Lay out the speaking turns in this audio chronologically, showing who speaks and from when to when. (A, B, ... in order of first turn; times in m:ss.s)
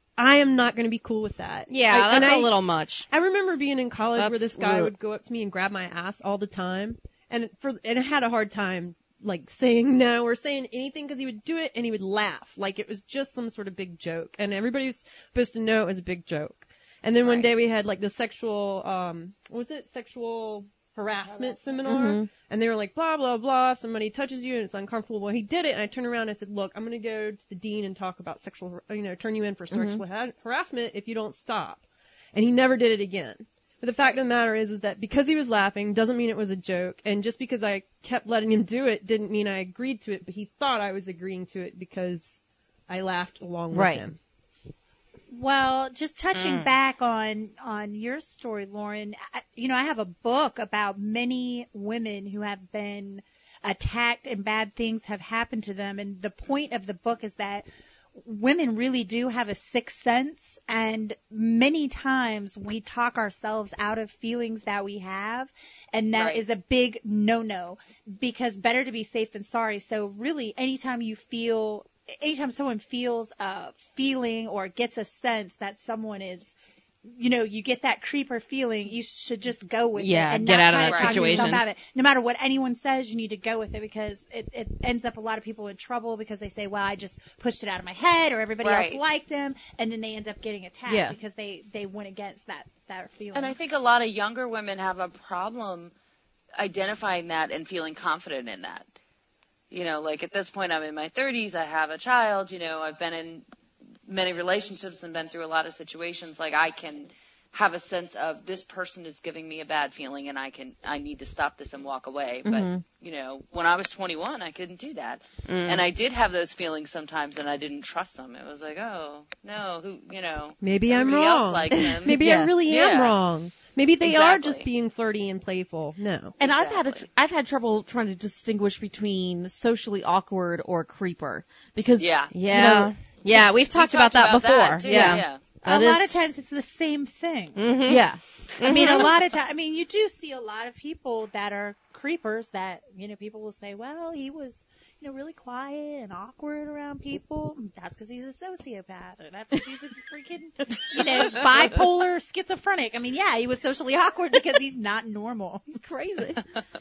0:00.2-0:02.5 A
0:01.7-0:03.1 B
0:03.1-0:42.4 A
0:04.2-0:04.9 B
0:17.2-0:17.5 C
0:21.8-0:22.3 D
0:29.7-0:30.0 D
0:42.9-0:44.2 A
0:43.7-0:44.1 D
0:45.3-1:33.7 E
0:46.3-0:46.7 B
1:06.2-1:06.4 C
1:20.0-1:21.6 B
1:20.9-1:21.6 C
1:28.6-1:29.0 C
1:30.9-1:31.2 D
1:33.3-1:35.9 C
1:36.6-1:38.9 C
1:39.7-1:43.5 C
1:44.1-2:03.2 C
1:52.4-1:52.8 D
1:55.5-1:55.8 B
2:00.6-2:06.4 A
2:01.8-2:02.5 D
2:04.0-2:04.7 C
2:06.4-2:07.0 C
2:06.4-2:12.9 D
2:12.0-2:12.3 C
2:12.3-2:16.2 B
2:13.4-2:15.4 C
2:14.9-2:15.2 D
2:15.6-2:17.7 E
2:17.6-2:18.1 B
2:17.9-2:18.2 D
2:18.6-2:19.1 B
2:18.6-2:35.7 E
2:35.7-2:36.4 D